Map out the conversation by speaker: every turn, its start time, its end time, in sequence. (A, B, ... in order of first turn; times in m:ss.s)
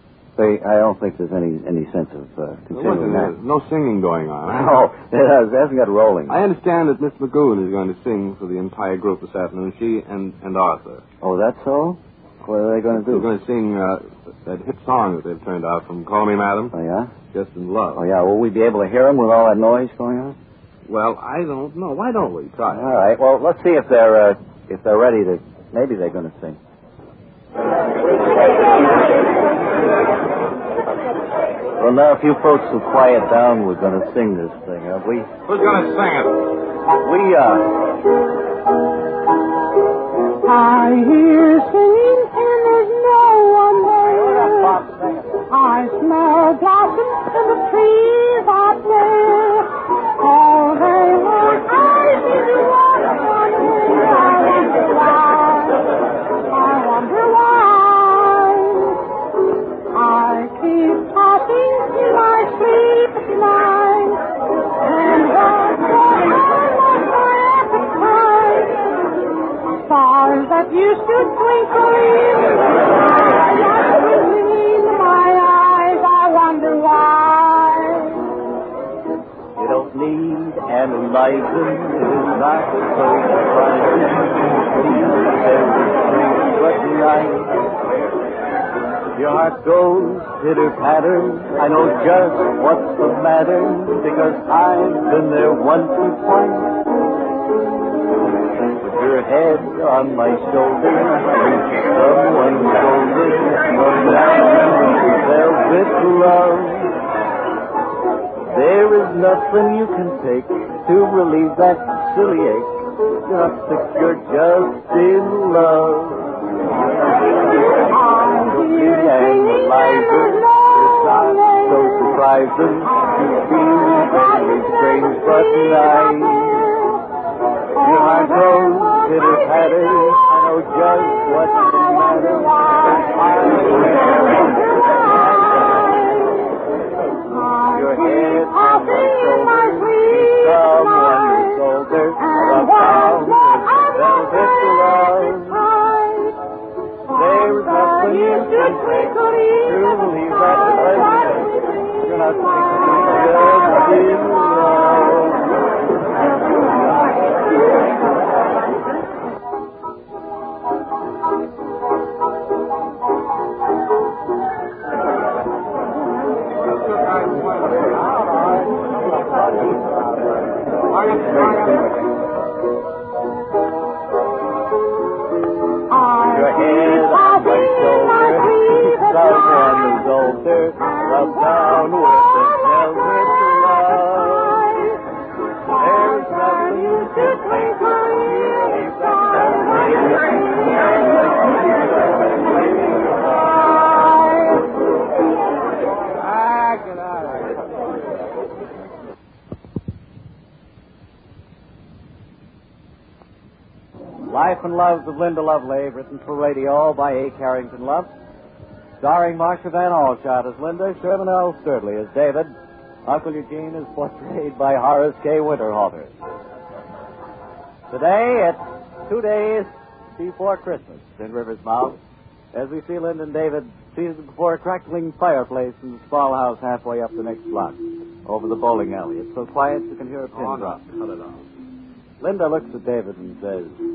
0:00.4-0:03.3 A
0:02.7-0:04.9 B
0:04.5-0:06.4 A
0:06.3-0:11.0 B
0:11.2-0:13.3 A
0:12.9-0:16.8 B
0:16.7-0:17.1 A
0:17.3-0:18.0 B
0:18.0-0:20.4 A
0:20.9-0:22.9 B
0:22.7-0:26.6 A
0:31.8-0:35.3 A
0:35.5-0:36.4 B
0:37.0-0:37.8 A
0:40.4-0:44.8 C
0:44.0-0:45.4 A
0:45.5-0:59.0 C
0:59.9-1:04.2 C
1:04.8-1:09.0 C
1:09.7-1:18.3 C
1:19.6-1:27.7 A
1:29.2-1:36.8 A
1:38.8-1:47.0 A
1:48.5-1:56.5 A
1:57.2-2:06.7 A
1:57.8-2:01.8 C
2:07.8-2:09.2 C
2:07.8-2:16.4 A
2:12.1-2:13.2 C
2:14.3-2:16.4 C
2:17.2-2:21.6 C
2:17.7-2:25.6 A
2:22.2-2:26.4 C
2:27.0-2:31.6 C
2:27.1-2:35.5 A
2:46.7-2:48.1 B
2:47.9-2:52.2 A
2:50.9-2:52.0 B
2:55.9-3:00.1 C
2:56.2-3:04.9 A
3:00.8-3:02.8 C
3:04.3-3:05.0 C
3:05.7-3:10.0 C
3:05.7-3:10.3 A
3:14.0-3:14.5 C
3:16.2-3:17.6 B
3:24.3-3:28.1 A
3:29.0-3:32.5 A
3:33.1-3:36.2 A
3:37.9-3:42.0 A
3:42.5-3:50.8 A
3:50.3-3:51.4 B
3:52.2-3:53.8 A